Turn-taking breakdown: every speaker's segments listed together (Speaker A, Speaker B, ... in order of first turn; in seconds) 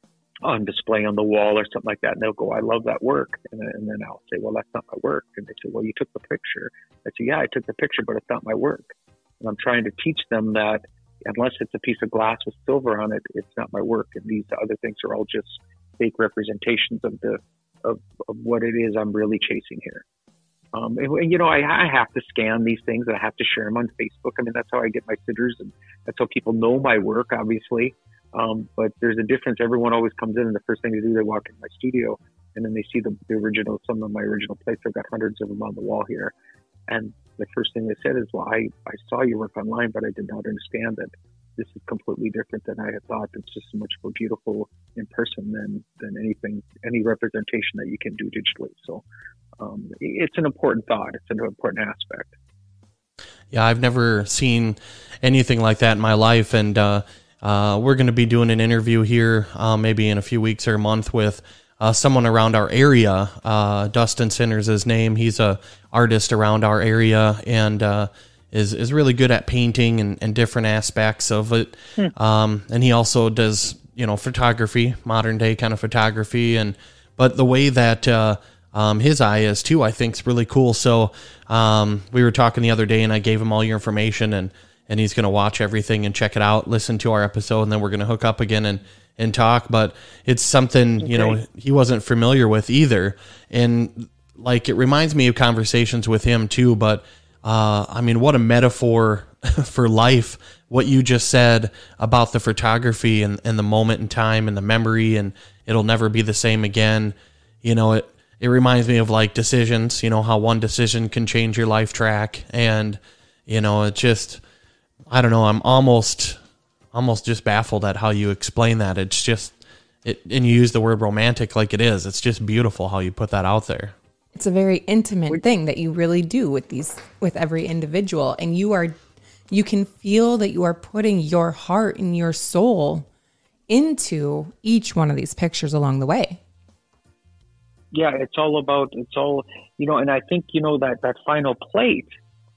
Speaker A: 0.4-8.9, 9.4-20.0, 20.7-36.3, 36.9-49.0, 49.6-52.3, 91.1-91.4, 137.9-142.1
Speaker B: 53.5-114.4, 115.1-116.4, 116.9-123.9
Speaker C: 124.3-128.9, 129.5-133.1, 133.7-136.4